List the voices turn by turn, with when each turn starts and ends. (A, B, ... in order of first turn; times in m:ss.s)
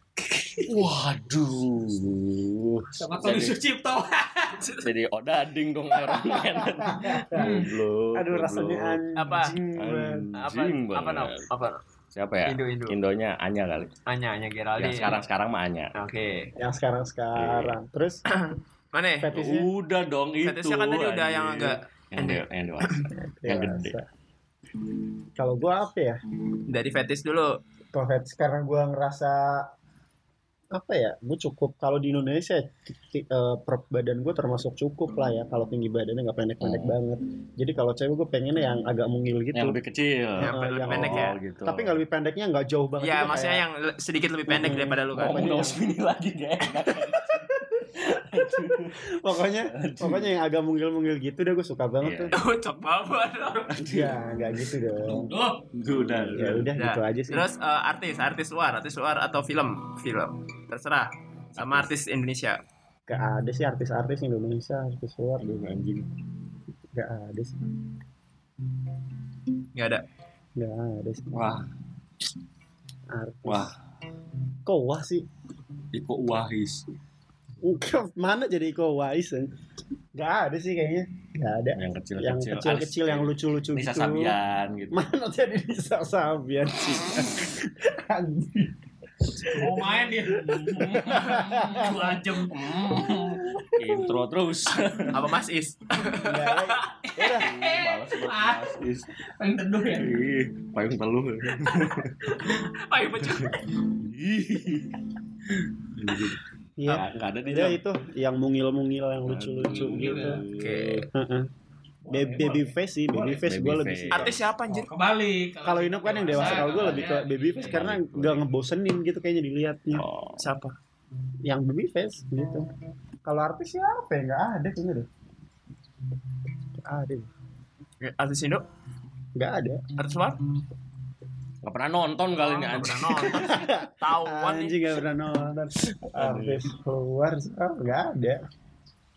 0:00.3-0:00.7 A
0:00.6-0:03.5 B
0:03.0-0:04.6 A
0:04.6-0:04.8 C
0:04.8-0:09.0 B
0:06.5-0:07.6 D
0:07.3-0:07.7 A
0:08.1-0:10.3 D
0:09.2-0:09.6 C
0:09.8-0:11.4 B
0:10.3-0:11.8 C
0:12.1-0:13.9 B
0:12.4-0:13.0 C
0:14.1-0:15.2 C
0:14.8-0:15.9 B
0:16.0-0:16.5 C
0:16.6-0:18.2 D
0:17.4-0:17.7 B
0:18.3-0:19.4 C
0:19.2-0:19.7 D
0:19.3-0:24.0 B
0:20.4-0:23.1 C
0:23.1-0:24.0 D
0:25.4-0:26.2 D
0:26.7-0:27.6 C
0:27.9-0:29.7 D
0:30.7-0:39.8 D
0:36.6-0:37.0 B
0:39.5-0:42.0 B
0:40.4-0:41.4 C
0:40.4-0:43.6 D
0:43.0-0:45.6 C
0:44.5-0:45.8 D
0:44.5-0:49.0 B
0:47.3-0:52.3 D
0:49.7-0:50.2 B
0:52.0-0:52.3 B
0:52.3-0:53.7 C
0:53.7-0:54.2 B
0:53.8-0:55.3 D
0:55.1-0:55.6 A
0:55.7-0:56.7 B
0:56.1-0:57.5 D
0:56.8-1:02.6 C
1:01.6-1:01.9 B
1:03.1-1:05.4 D
1:05.4-1:06.1 B
1:06.9-1:07.6 D
1:09.7-1:10.0 C
1:10.6-1:11.3 D
1:11.3-1:11.7 B
1:13.1-1:13.7 D
1:13.4-1:13.7 B
1:14.6-1:15.2 D
1:15.9-1:16.8 B
1:17.6-1:19.5 D
1:20.1-1:24.4 D
1:21.8-1:25.0 B
1:24.9-1:28.7 D
1:29.3-1:32.4 D
1:29.5-1:33.4 A
1:32.5-1:35.2 B
1:35.1-1:36.9 C
1:36.2-1:37.5 D
1:37.0-1:38.7 A
1:37.3-1:39.0 B
1:39.4-1:40.1 A
1:39.9-1:42.2 B
1:42.2-1:43.6 C
1:43.4-1:45.0 B
1:45.6-1:47.8 B
1:46.8-1:50.4 D
1:49.3-1:51.0 B
1:49.7-1:50.4 A
1:50.5-1:51.1 C
1:51.1-1:51.5 D
1:52.1-1:52.7 A
1:52.1-1:54.3 D
1:53.2-1:54.4 B
1:54.1-1:54.9 C
1:54.7-1:57.9 A
1:55.6-2:00.4 D
1:56.3-1:58.4 B
1:59.9-2:00.4 B
2:01.4-2:02.7 D
2:03.2-2:05.1 D
2:06.8-2:07.3 D
2:08.0-2:08.6 C
2:09.3-2:09.8 D
2:10.0-2:10.4 C
2:11.6-2:13.4 B
2:12.3-2:14.9 C
2:13.2-2:18.4 D
2:16.1-2:16.6 B